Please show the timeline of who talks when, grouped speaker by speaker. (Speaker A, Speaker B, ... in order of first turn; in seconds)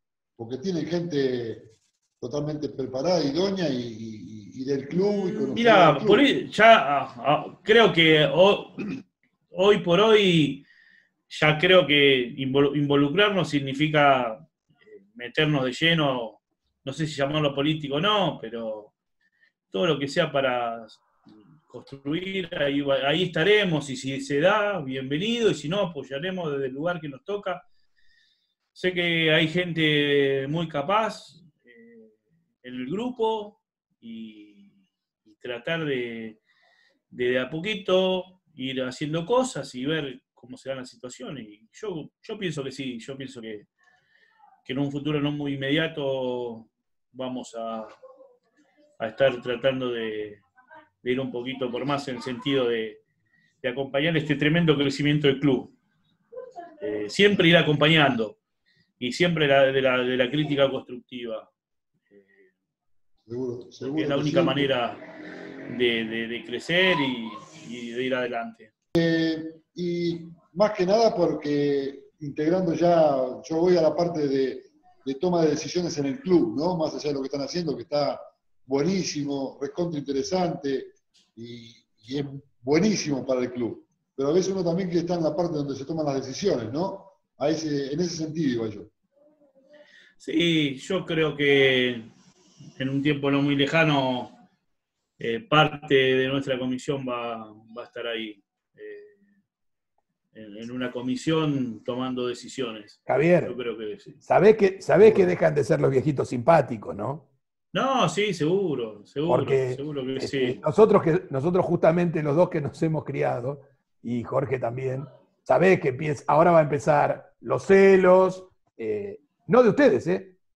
Speaker A: 0.4-6.2, 63.3-64.7, 69.0-88.9
Speaker B: 4.9-8.9, 9.5-10.6, 11.3-14.5, 15.1-18.9, 19.7-21.0, 21.7-27.6, 28.7-32.1, 32.6-34.7, 35.2-36.4, 37.1-43.7, 44.6-47.9, 49.0-50.4, 51.0-53.0, 53.6-55.7, 56.8-58.4, 59.0-61.5, 63.8-65.0, 65.7-68.7, 90.2-92.1, 92.8-94.4, 95.2-99.2, 100.3-104.2, 107.7-110.6
Speaker C: 103.1-103.6, 104.2-107.2, 109.3-120.3